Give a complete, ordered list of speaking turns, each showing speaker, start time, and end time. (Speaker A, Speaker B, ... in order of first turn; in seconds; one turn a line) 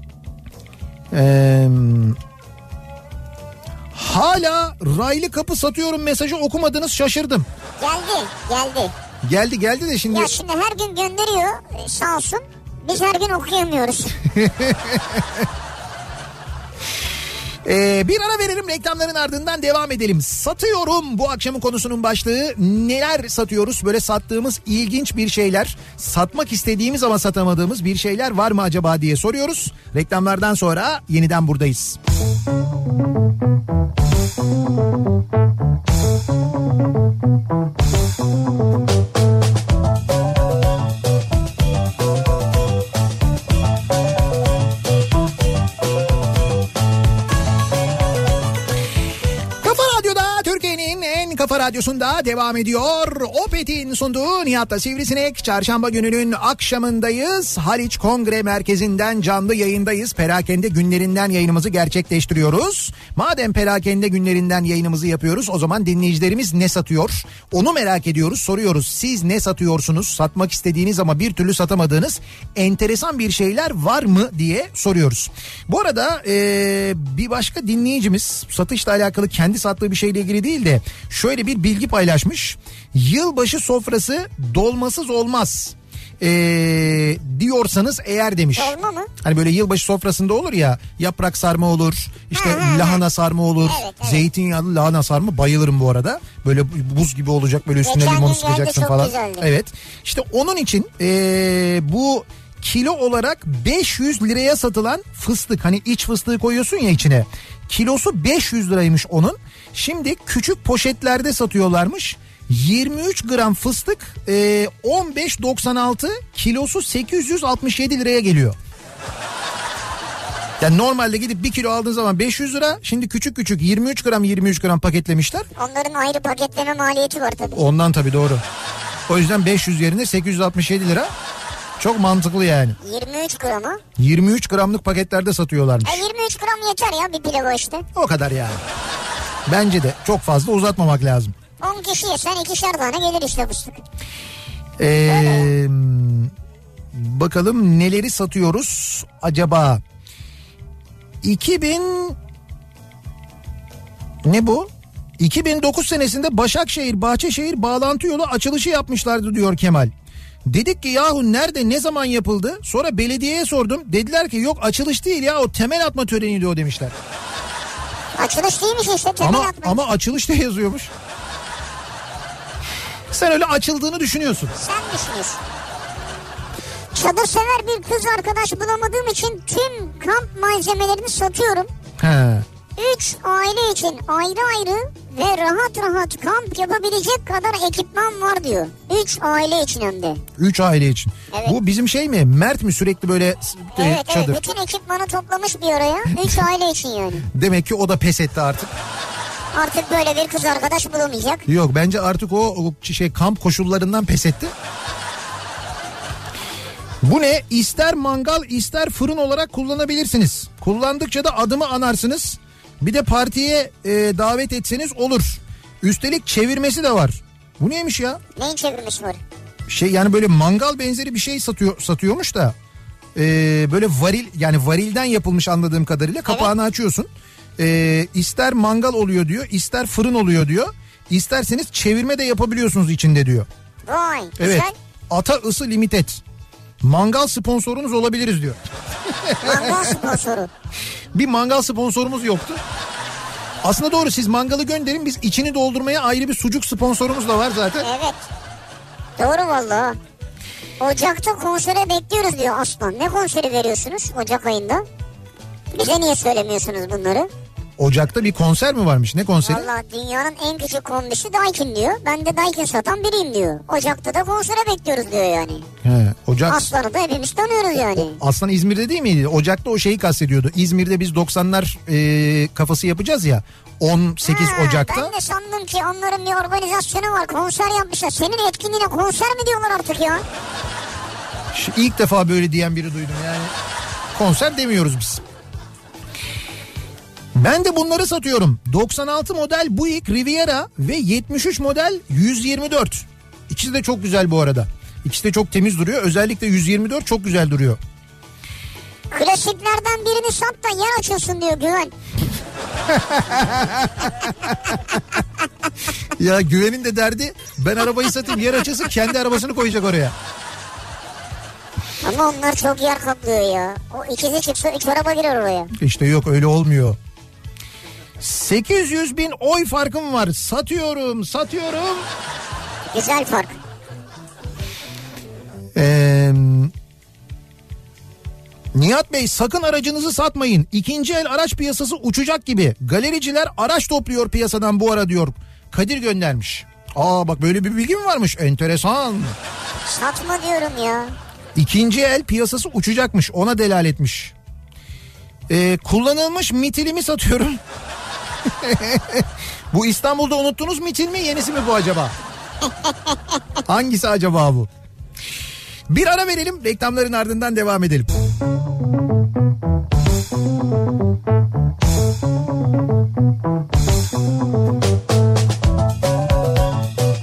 Speaker A: 1.1-2.2
Speaker A: 3.9-7.5
Speaker B: 7.8-8.9
Speaker A: 9.2-10.3
Speaker B: 10.1-14.2
Speaker A: 14.3-15.3
Speaker A: 17.6-32.0
Speaker A: 49.6-118.6
Speaker B: 88.5-89.1
Speaker B: 92.3-93.0
Speaker B: 93.6-94.3
Speaker B: 97.8-99.5
Speaker A: 120.6-125.5
Speaker B: 125.5-127.6
Speaker A: 127.5-128.4
Speaker A: 129.1-131.1
Speaker A: 131.8-132.8
Speaker B: 132.8-133.8
Speaker A: 134.0-136.0
Speaker B: 135.8-137.8
Speaker A: 137.9-138.6
Speaker A: 139.5-141.3
Speaker B: 141.6-143.8
Speaker A: 144.8-146.3
Speaker B: 145.1-145.4
Speaker A: 146.9-149.8
Speaker A: 151.2-152.2
Speaker A: 154.2-159.9
Speaker A: 160.4-166.9
Speaker B: 168.2-169.8
Speaker A: 169.2-170.9
Speaker A: 173.1-174.5
Speaker B: 174.6-175.4
Speaker B: 176.9-181.7
Speaker A: 182.0-182.4
Speaker B: 182.8-190.2
Speaker A: 190.4-194.4
Speaker B: 193.7-197.2
Speaker A: 196.1-196.4
Speaker A: 197.3-198.7
Speaker B: 199.5-201.4
Speaker A: 201.5-204.5
Speaker A: 207.0-218.2
Speaker B: 218.3-219.2
Speaker A: 219.7-222.6
Speaker A: 223.1-233.5
Speaker B: 233.9-234.7
Speaker A: 234.4-236.2
Speaker A: 236.8-240.1
Speaker B: 239.4-240.5
Speaker A: 241.1-242.6
Speaker A: 243.6-247.9
Speaker B: 247.8-248.3
Speaker B: 249.2-250.0
Speaker B: 250.8-254.8
Speaker B: 255.7-257.3
Speaker A: 257.8-259.7
Speaker B: 259.4-265.7
Speaker A: 265.8-266.6
Speaker B: 266.5-268.2
Speaker A: 267.9-275.1
Speaker B: 274.2-280.2
Speaker A: 281.5-283.5
Speaker A: 284.1-285.2
Speaker A: 287.3-297.8
Speaker B: 299.1-301.9
Speaker A: 302.9-305.0
Speaker A: 306.1-310.1
Speaker B: 312.0-315.7
Speaker A: 315.7-317.0
Speaker A: 318.2-322.1
Speaker B: 322.9-323.6
Speaker A: 325.7-326.7
Speaker A: 328.7-339.4
Speaker B: 339.8-341.1
Speaker A: 341.5-344.3
Speaker A: 345.5-347.6
Speaker A: 348.5-352.1
Speaker A: 353.6-354.7
Speaker A: 355.9-358.1